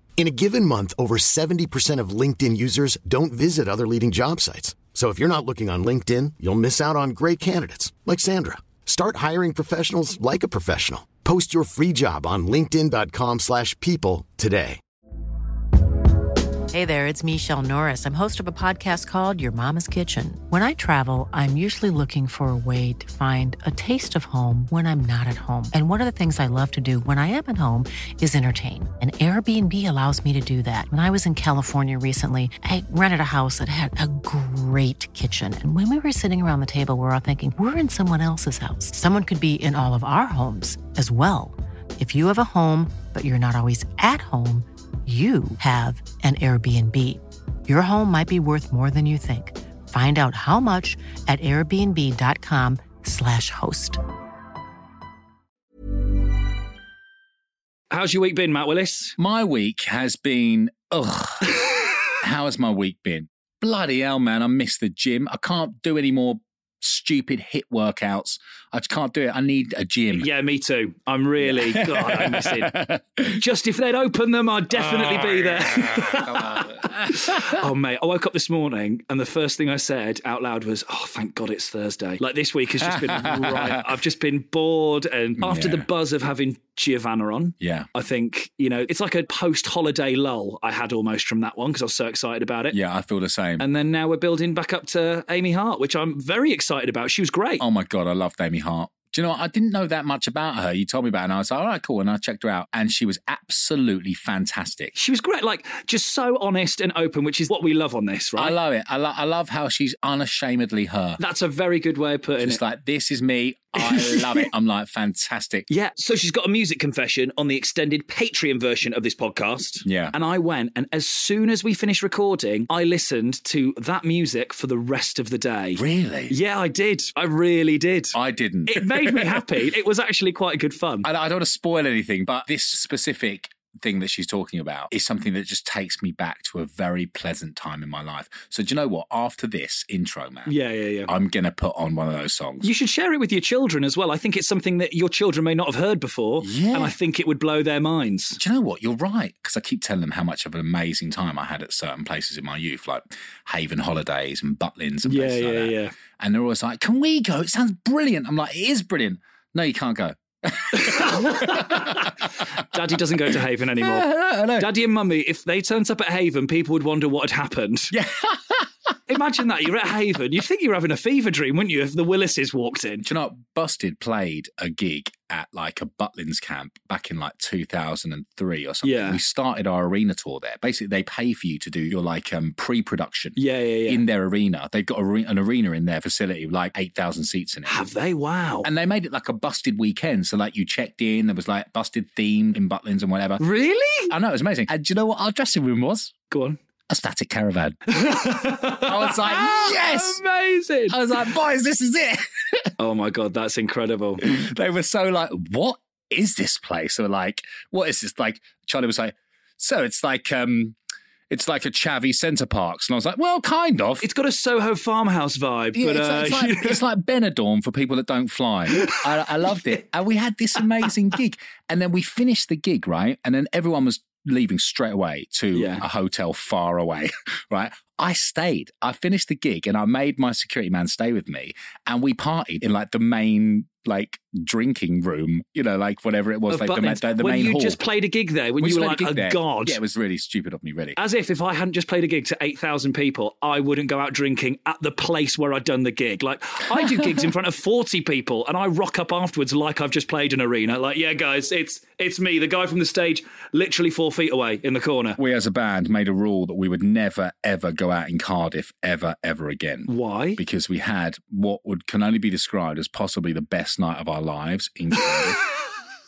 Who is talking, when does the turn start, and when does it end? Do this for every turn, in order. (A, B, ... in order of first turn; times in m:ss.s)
0:00.2-0:14.8 A
0:16.7-0:54.0 B
0:57.9-0:59.2 C
0:59.2-1:01.7 D
1:02.2-1:10.3 D
1:10.2-1:12.8 C
1:11.4-1:13.4 D
1:13.3-1:32.8 C
1:14.7-1:17.6 D
1:22.8-1:23.8 D
1:25.4-1:25.9 D
1:27.6-1:27.9 D
1:32.7-1:33.6 D
1:33.6-1:37.6 C
1:37.6-1:44.9 D
1:45.0-1:48.6 C
1:48.4-1:51.2 D
1:51.2-1:52.6 C
1:52.4-1:55.7 D
1:53.8-1:54.5 C
1:55.7-2:08.2 C
1:59.8-2:00.1 D
2:05.8-2:06.4 D
2:08.1-2:09.4 D
2:08.7-2:11.1 C
2:11.0-2:20.5 D
2:20.5-2:21.1 C
2:21.1-2:22.7 D
2:22.6-2:28.4 C
2:26.4-2:27.0 D
2:28.4-2:42.1 D
2:35.1-2:35.9 C
2:40.8-2:47.9 C
2:43.8-2:44.7 D
2:47.9-2:49.0 D
2:49.1-2:53.0 C
2:53.0-3:07.8 D
2:58.8-2:59.2 C
3:03.4-3:04.0 C
3:07.7-3:08.7 C
3:08.6-3:13.4 D
3:13.4-3:14.1 C
3:14.1-3:16.1 D
3:16.3-3:16.6 C
3:16.9-3:18.0 D
3:17.9-3:21.0 C
3:18.7-3:20.2 D
3:20.9-3:22.7 D
3:22.8-3:24.3 C
3:24.2-3:30.8 D
3:31.3-3:34.1 D
3:34.0-3:36.8 C
3:35.8-3:57.8 D
3:45.6-3:45.8 C
3:56.5-3:59.8 C
3:58.6-4:01.0 D
4:01.0-4:15.2 C
4:15.2-4:25.4 D
4:19.9-4:20.4 C